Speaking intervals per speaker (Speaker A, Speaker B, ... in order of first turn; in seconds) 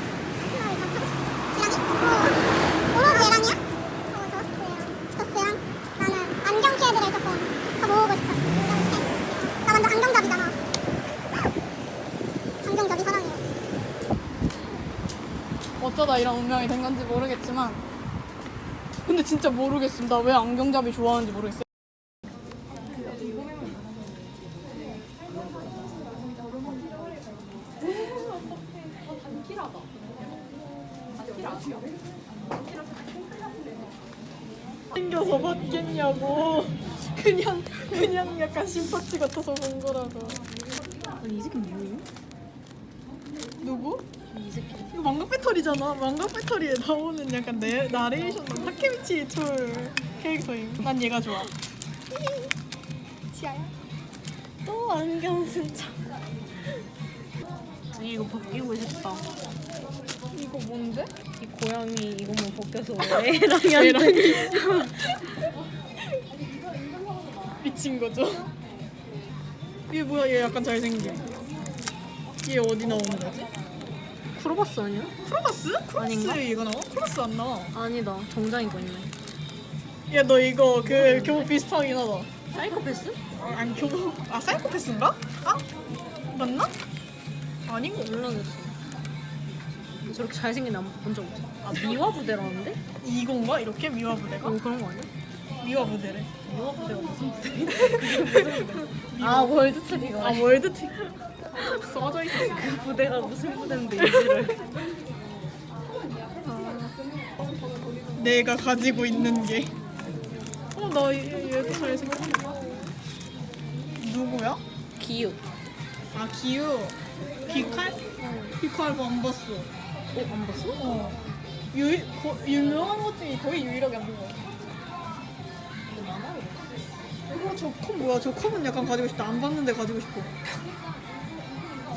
Speaker A: 0.4-2.4, 2.9-9.1, 9.6-10.6, 12.6-13.4
Speaker B: 15.8-17.8, 19.1-21.7, 34.9-40.4, 43.6-44.0, 44.9-51.5, 53.3-53.7, 60.3-61.1, 63.0-64.9, 67.6-68.5, 69.9-71.2, 72.4-73.5, 75.2-77.7, 80.1-82.3, 83.3-85.6, 86.3-86.7, 87.7-88.2, 93.0-94.5, 95.6-96.3, 97.8-101.1, 101.7-102.6, 104.0-104.3, 106.5-106.8, 108.1-109.7, 110.7-112.7, 114.0-114.6, 116.1-118.0, 118.6-119.7, 120.8-121.2, 121.7-124.4, 127.3-130.3
Speaker C: 41.2-42.0, 44.3-45.0, 54.6-56.0, 57.9-59.3, 61.4-65.3, 74.3-75.1, 76.0-76.4, 77.7-79.1, 80.9-81.5, 82.5-83.2, 87.9-88.8, 90.0-92.8, 94.4-95.1, 96.5-100.6, 101.6-104.7, 106.5-106.9, 115.0-115.4, 117.5-118.6, 120.1-121.0, 125.8-126.7